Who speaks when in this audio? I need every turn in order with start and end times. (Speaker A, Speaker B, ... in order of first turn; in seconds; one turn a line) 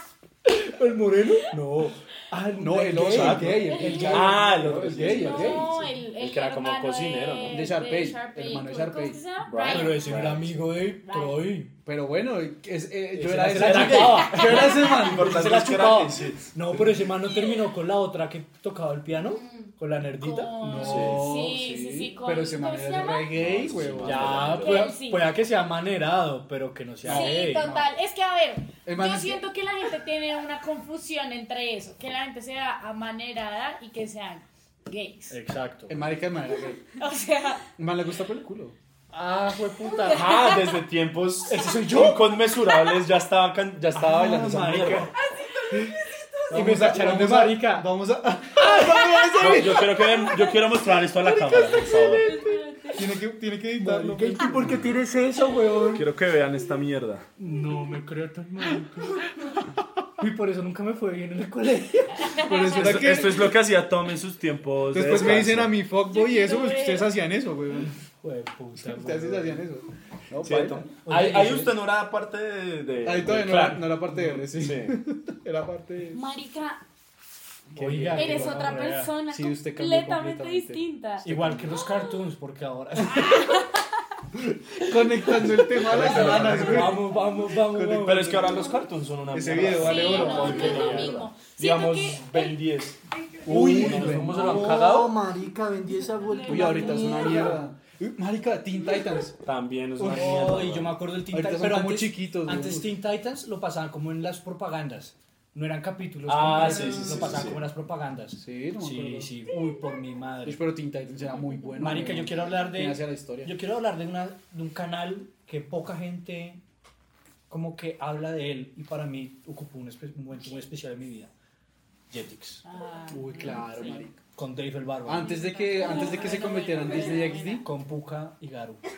Speaker A: 0.4-5.0
Speaker B: 2.5-5.7
Speaker C: 3.0-7.7
Speaker D: 3.7-4.4
Speaker D: 5.0-10.3
Speaker B: 7.5-9.2
Speaker C: 9.4-10.6
Speaker A: 9.7-11.7
Speaker D: 11.0-11.5
Speaker B: 11.8-15.5
Speaker A: 13.1-20.7
Speaker C: 13.5-17.0
Speaker D: 14.3-14.7
Speaker D: 20.2-23.4
Speaker B: 20.6-24.5
Speaker C: 20.8-21.3
Speaker C: 23.3-24.9
Speaker A: 24.0-27.7
Speaker D: 24.6-25.3
Speaker B: 27.0-27.9
Speaker D: 27.1-35.4
Speaker B: 28.8-29.4
Speaker A: 35.3-36.0
Speaker B: 35.9-36.8
Speaker D: 37.0-37.7
Speaker B: 37.8-38.8
Speaker A: 39.1-40.4
Speaker C: 40.0-45.1
Speaker D: 40.2-40.6
Speaker A: 41.5-42.3
Speaker A: 43.9-45.1
Speaker A: 46.5-47.9
Speaker B: 46.5-50.0
Speaker A: 48.6-49.0
Speaker C: 49.3-52.4
Speaker D: 51.6-53.2
Speaker B: 52.9-54.8
Speaker A: 53.8-56.1
Speaker C: 55.9-57.3
Speaker A: 57.4-59.3
Speaker A: 60.2-62.6
Speaker B: 62.4-63.5
Speaker D: 62.6-62.9
Speaker C: 62.7-65.8
Speaker B: 64.9-68.0
Speaker D: 66.1-67.1
Speaker A: 68.2-69.6
Speaker B: 68.8-70.9
Speaker C: 70.4-75.0
Speaker A: 71.0-71.7
Speaker B: 73.0-76.2
Speaker D: 76.1-76.8
Speaker B: 77.7-81.8
Speaker A: 77.8-79.1
Speaker D: 78.1-81.2
Speaker A: 81.2-83.6
Speaker D: 83.1-83.8
Speaker B: 84.7-91.2
Speaker C: 85.5-87.0
Speaker A: 85.9-88.5
Speaker C: 87.8-95.2
Speaker D: 89.8-92.6
Speaker A: 90.0-91.1
Speaker B: 93.5-95.0
Speaker A: 93.5-97.6
Speaker D: 96.2-97.6
Speaker B: 96.5-99.4
Speaker C: 99.4-101.0
Speaker B: 100.0-100.5
Speaker A: 100.0-110.6
Speaker B: 101.3-102.9
Speaker C: 106.3-107.7
Speaker B: 107.0-107.4
Speaker B: 108.3-109.3
Speaker B: 110.5-113.5
Speaker A: 111.8-116.6
Speaker A: 117.5-121.3
Speaker A: 122.1-122.6
Speaker D: 122.7-124.0
Speaker B: 123.1-124.2
Speaker A: 123.8-125.4
Speaker B: 125.0-127.7
Speaker D: 125.3-127.6
Speaker A: 127.6-128.8